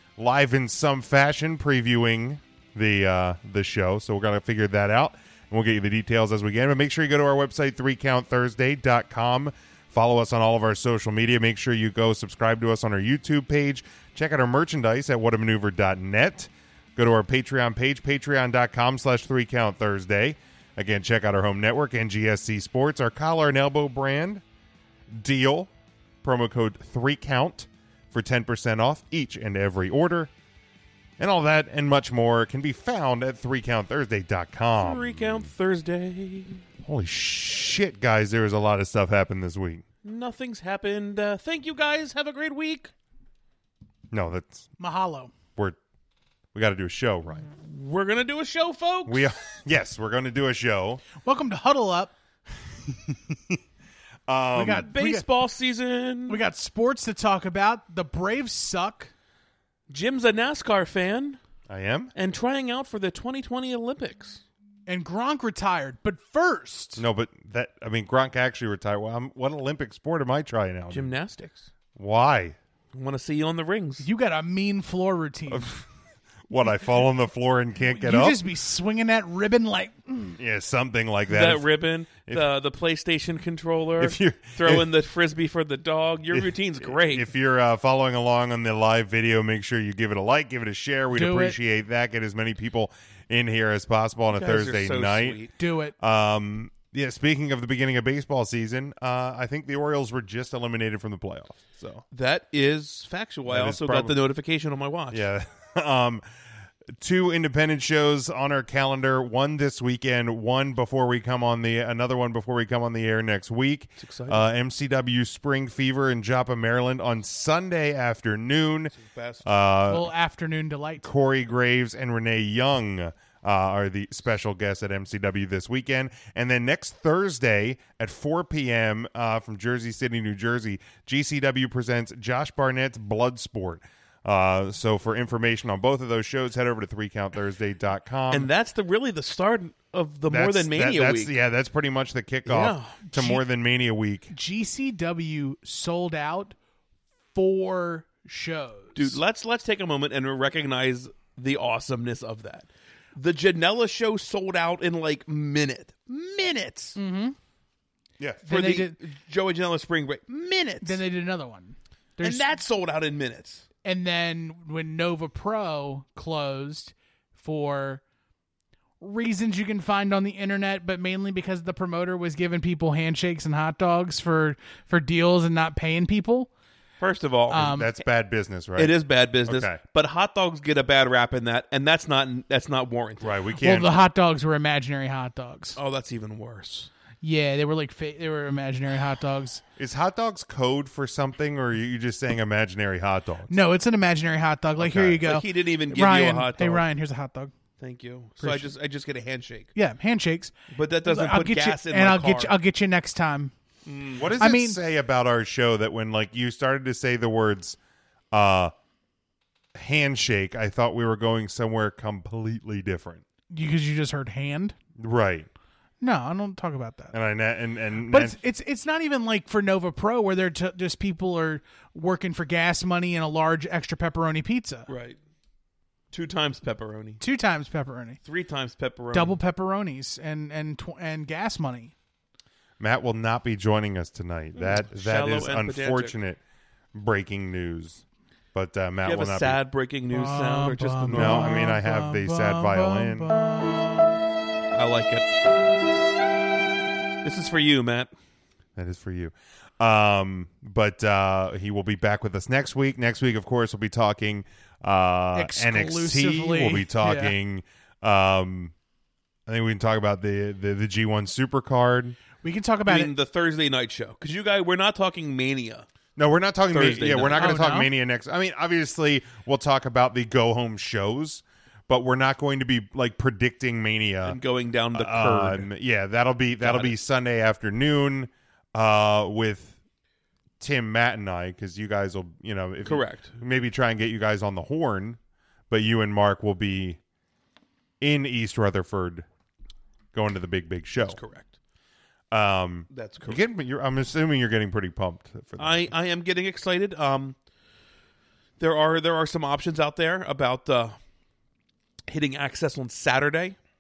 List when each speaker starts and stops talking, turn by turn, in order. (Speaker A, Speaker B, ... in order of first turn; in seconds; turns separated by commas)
Speaker A: 0.2-24.4, Speaker A: 25.1-25.7, Speaker A: 26.2-30.3, Speaker A: 31.2-35.5, Speaker B: 34.8-36.6, Speaker A: 36.8-39.8, Speaker B: 40.0-42.9, Speaker A: 44.1-44.7, Speaker C: 44.8-45.3, Speaker A: 46.5-47.5, Speaker B: 47.5-49.3, Speaker A: 49.1-51.0, Speaker C: 51.2-52.1, Speaker A: 53.1-53.6, Speaker A: 54.3-54.9, Speaker C: 54.5-55.2, Speaker B: 54.7-56.4, Speaker C: 56.3-59.1, Speaker B: 59.9-61.4, Speaker A: 61.7-62.1, Speaker B: 62.1-64.4, Speaker C: 64.9-67.0, Speaker A: 67.0-71.1, Speaker B: 70.9-71.7, Speaker A: 72.0-72.6, Speaker B: 72.9-74.1, Speaker C: 74.0-75.7, Speaker A: 75.5-75.8, Speaker A: 76.5-78.4, Speaker C: 77.9-80.4, Speaker A: 80.4-81.7, Speaker B: 81.3-87.3, Speaker A: 84.0-84.9, Speaker A: 86.3-95.4, Speaker C: 91.1-91.6, Speaker B: 94.3-95.5, Speaker C: 95.6-96.0, Speaker A: 96.0-102.0, Speaker B: 102.1-105.3, Speaker A: 103.5-104.2, Speaker A: 105.1-106.2, Speaker A: 107.0-118.9, Speaker B: 114.0-114.5, Speaker B: 118.9-119.4, Speaker A: 119.4-120.1, Speaker C: 119.9-121.1, Speaker A: 121.0-138.5, Speaker B: 138.3-141.3, Speaker A: 140.3-144.3, Speaker B: 142.5-143.0, Speaker C: 143.1-143.4, Speaker C: 144.3-146.6, Speaker C: 147.3-149.2, Speaker B: 149.0-157.0, Speaker C: 157.0-157.4, Speaker A: 158.2-158.5, Speaker C: 158.5-159.0, Speaker B: 158.5-161.0, Speaker C: 160.8-162.6, Speaker B: 162.2-163.7, Speaker C: 163.8-168.0, Speaker C: 169.0-176.5, Speaker B: 177.0-177.7, Speaker C: 177.5-177.9, Speaker A: 177.5-178.9, Speaker B: 178.8-183.3, Speaker A: 179.4-179.8, Speaker A: 183.2-183.9, Speaker C: 183.6-185.8, Speaker B: 185.8-186.9, Speaker C: 187.2-189.6, Speaker A: 189.8-193.6, Speaker C: 193.5-197.5, Speaker A: 194.8-195.2, Speaker B: 195.2-196.8, Speaker B: 197.8-199.7, Speaker C: 198.4-198.7, Speaker C: 199.8-200.5, Speaker B: 200.7-202.6, Speaker C: 201.0-203.5, Speaker B: 203.9-204.3, Speaker A: 204.2-207.8, Speaker C: 204.4-204.8, Speaker A: 208.3-208.7, Speaker A: 209.8-213.2, Speaker C: 213.5-214.8, Speaker A: 215.0-215.5, Speaker C: 216.0-217.2, Speaker A: 217.1-218.4, Speaker C: 218.1-224.9, Speaker B: 224.9-225.2, Speaker B: 226.1-227.2, Speaker C: 227.2-228.2, Speaker B: 228.2-229.4, Speaker C: 229.1-231.9, Speaker A: 232.8-236.4, Speaker B: 234.6-236.2, Speaker A: 236.9-239.6, Speaker B: 239.1-241.7, Speaker C: 240.1-244.1, Speaker A: 241.1-243.3, Speaker B: 244.7-245.3, Speaker B: 247.2-248.1, Speaker A: 248.8-258.7, Speaker C: 255.3-257.4, Speaker A: 259.5-262.2, Speaker C: 262.4-263.1, Speaker B: 262.9-265.9, Speaker A: 266.2-274.4, Speaker B: 266.7-267.5, Speaker C: 267.3-267.9, Speaker B: 274.3-275.7, Speaker A: 274.9-279.8, Speaker B: 276.6-277.0, Speaker A: 280.6-285.2, Speaker B: 282.9-283.4, Speaker A: 285.7-287.0, Speaker A: 288.0-289.3, Speaker A: 290.1-291.2, Speaker B: 291.1-291.5, Speaker A: 292.3-295.9, Speaker B: 292.9-293.4, Speaker B: 295.6-297.4, Speaker B: 298.6-301.0, Speaker B: 302.1-303.6